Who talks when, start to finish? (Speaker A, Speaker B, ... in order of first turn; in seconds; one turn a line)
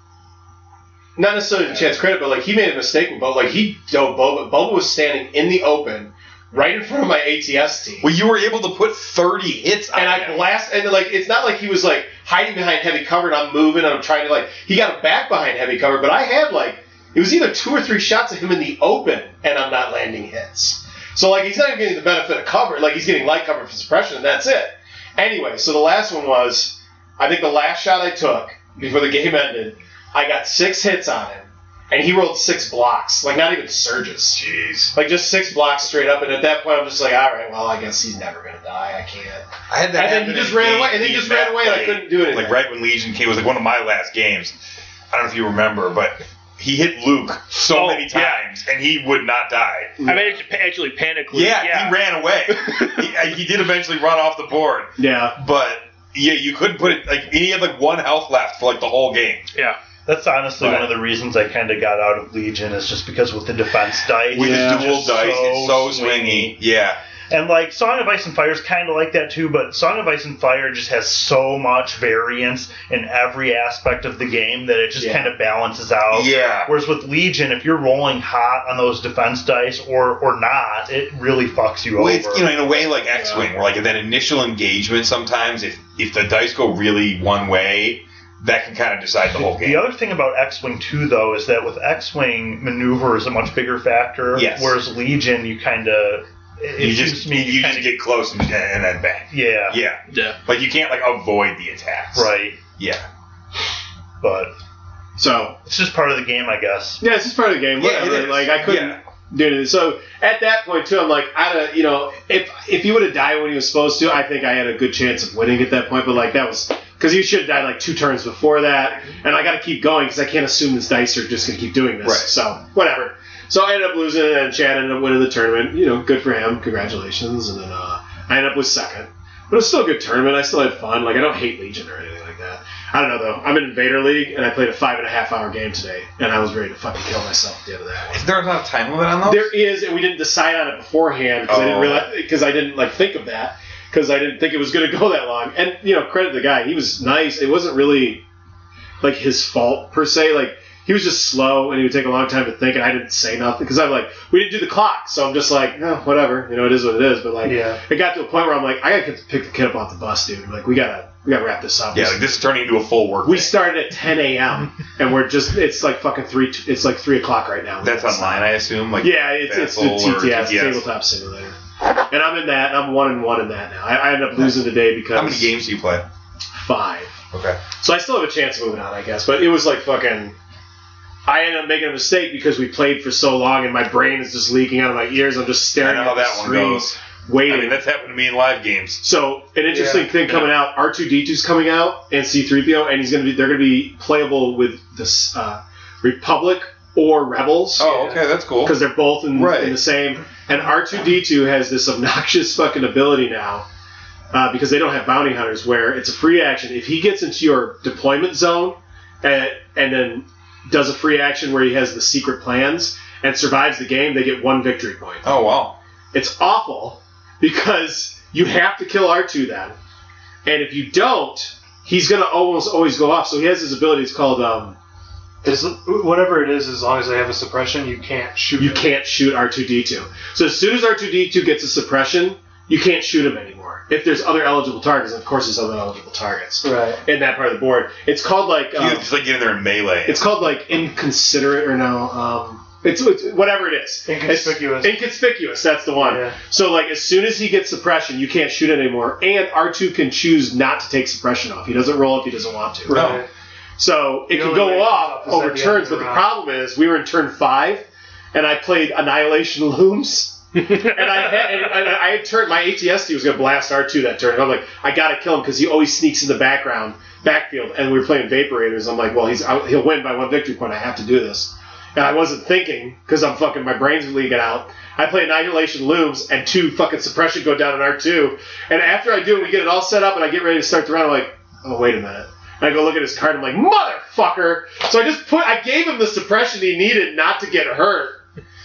Speaker A: 1.2-8.1
Speaker B: 8.0-10.4
Speaker A: 9.9-34.4
Speaker B: 34.3-34.9
Speaker A: 34.9-42.6
Speaker B: 39.7-44.5
Speaker B: 45.1-50.0
Speaker C: 47.6-48.4
Speaker A: 50.0-50.4
Speaker C: 50.0-52.0
Speaker B: 51.3-59.5
Speaker C: 52.7-53.0
Speaker A: 55.0-55.4
Speaker D: 60.1-66.6
Speaker B: 60.6-60.9
Speaker B: 64.3-67.0
Speaker A: 64.3-64.9
Speaker D: 67.3-82.5
Speaker A: 75.0-75.3
Speaker B: 76.1-76.7
Speaker B: 82.0-89.9
Speaker A: 83.2-83.5
Speaker D: 89.5-98.0
Speaker B: 94.3-94.8
Speaker B: 96.8-103.1
Speaker D: 99.3-99.8
Speaker C: 100.1-100.4
Speaker D: 102.2-102.6
Speaker D: 104.2-104.5
Speaker A: 105.2-105.6
Speaker D: 105.6-107.0
Speaker A: 107.0-138.2
Speaker B: 107.8-109.0
Speaker B: 122.0-122.3
Speaker B: 138.1-139.6
Speaker A: 139.2-148.2
Speaker B: 141.5-142.1
Speaker A: 149.0-162.2
Speaker E: 157.4-157.8
Speaker B: 161.9-163.6
Speaker A: 163.2-171.6
Speaker B: 167.8-170.8
Speaker A: 172.1-175.6
Speaker B: 175.1-176.1
Speaker A: 176.5-177.2
Speaker B: 177.3-177.6
Speaker A: 177.8-180.4
Speaker A: 181.3-187.8
Speaker B: 185.8-189.0
Speaker A: 189.0-198.1
Speaker E: 189.7-190.2
Speaker B: 197.8-198.8
Speaker E: 197.8-198.2
Speaker A: 198.6-203.7
Speaker B: 199.3-199.8
Speaker A: 204.3-215.4
Speaker B: 215.2-215.8
Speaker A: 216.1-219.8
Speaker A: 220.4-224.8
Speaker E: 225.4-228.9
Speaker A: 228.6-239.1
Speaker E: 236.6-237.0
Speaker B: 238.8-240.2
Speaker A: 240.1-253.2
Speaker E: 244.1-245.0
Speaker E: 246.0-246.4
Speaker E: 252.9-253.3
Speaker B: 252.9-253.2
Speaker A: 253.8-288.2
Speaker E: 254.3-256.3
Speaker C: 260.6-261.0